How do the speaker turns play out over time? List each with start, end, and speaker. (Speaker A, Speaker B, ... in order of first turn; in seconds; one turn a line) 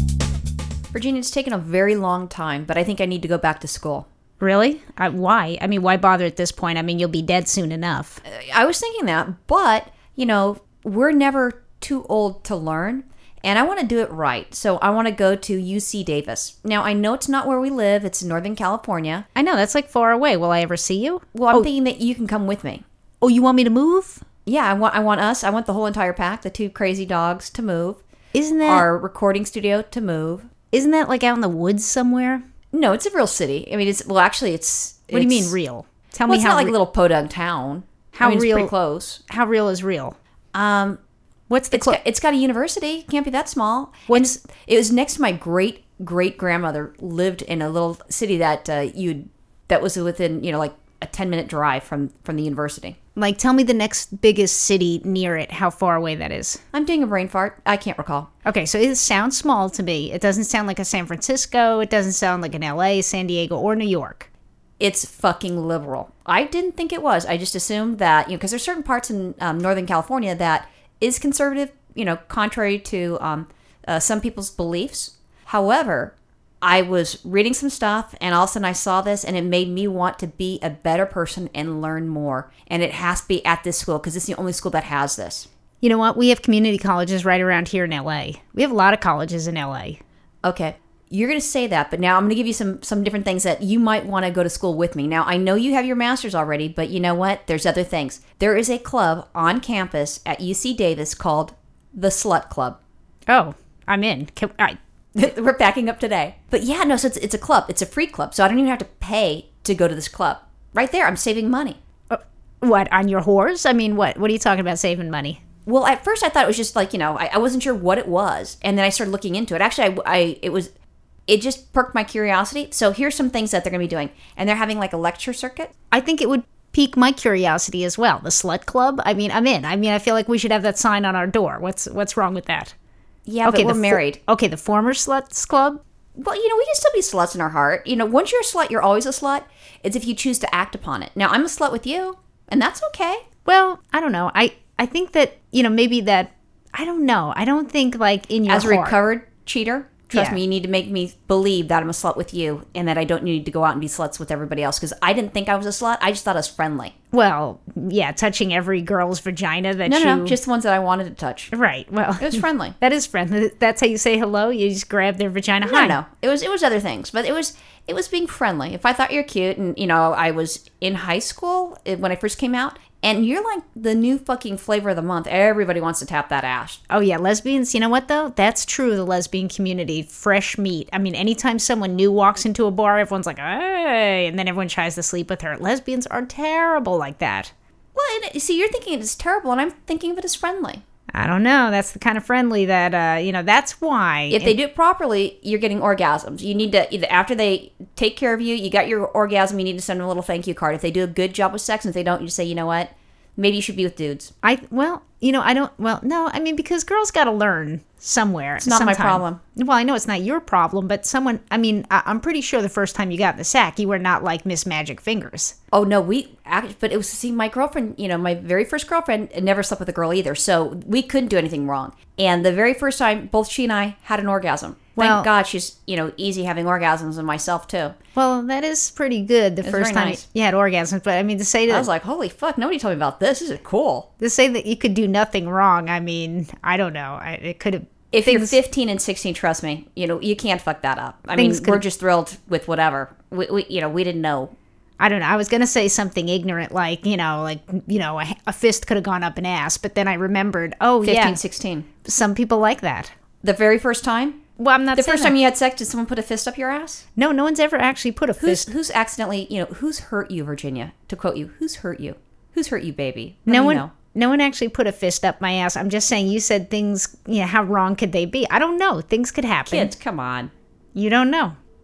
Speaker A: 0.9-4.1
Speaker B: 4.4-8.2
Speaker A: 8.2-19.3
Speaker B: 19.4-21.7
Speaker A: 21.3-22.8
Speaker B: 23.2-24.2
Speaker A: 24.5-28.0
Speaker B: 28.3-28.9
Speaker A: 28.6-30.5
Speaker B: 30.7-32.4
Speaker A: 32.7-35.6
Speaker B: 35.1-36.7
Speaker A: 36.3-39.2
Speaker B: 38.1-38.7
Speaker B: 39.3-40.2
Speaker A: 40.5-41.0
Speaker B: 41.5-42.0
Speaker A: 41.7-53.0
Speaker B: 44.1-44.4
Speaker B: 53.2-56.6
Speaker A: 56.7-58.3
Speaker B: 58.5-64.3
Speaker A: 64.8-85.5
Speaker B: 85.8-90.0
Speaker A: 90.4-102.8
Speaker B: 103.3-104.8
Speaker A: 105.2-111.8
Speaker B: 112.1-115.4
Speaker A: 115.7-120.7
Speaker A: 121.3-125.7
Speaker B: 125.9-132.7
Speaker A: 133.3-134.2
Speaker B: 133.4-135.8
Speaker A: 136.2-143.2
Speaker B: 143.4-149.0
Speaker A: 148.5-156.9
Speaker B: 150.1-150.4
Speaker B: 157.1-160.4
Speaker A: 159.8-161.5
Speaker B: 161.5-166.0
Speaker A: 162.2-162.8
Speaker A: 165.6-176.8
Speaker B: 176.9-187.5
Speaker A: 187.9-190.8
Speaker B: 191.2-194.6
Speaker A: 194.3-204.3
Speaker B: 204.4-215.5
Speaker A: 208.6-209.4
Speaker A: 215.7-227.9
Speaker B: 225.0-225.3
Speaker B: 228.2-231.9
Speaker A: 229.6-230.2
Speaker A: 231.7-234.1
Speaker B: 234.2-238.6
Speaker A: 238.1-244.6
Speaker B: 241.4-241.8
Speaker B: 245.0-251.4
Speaker A: 251.0-251.9
Speaker B: 252.0-253.1
Speaker A: 253.4-254.4
Speaker B: 254.6-255.3
Speaker A: 254.9-257.0
Speaker B: 257.2-258.7
Speaker A: 258.4-263.9
Speaker B: 263.5-269.9
Speaker A: 269.7-270.5
Speaker B: 270.9-271.6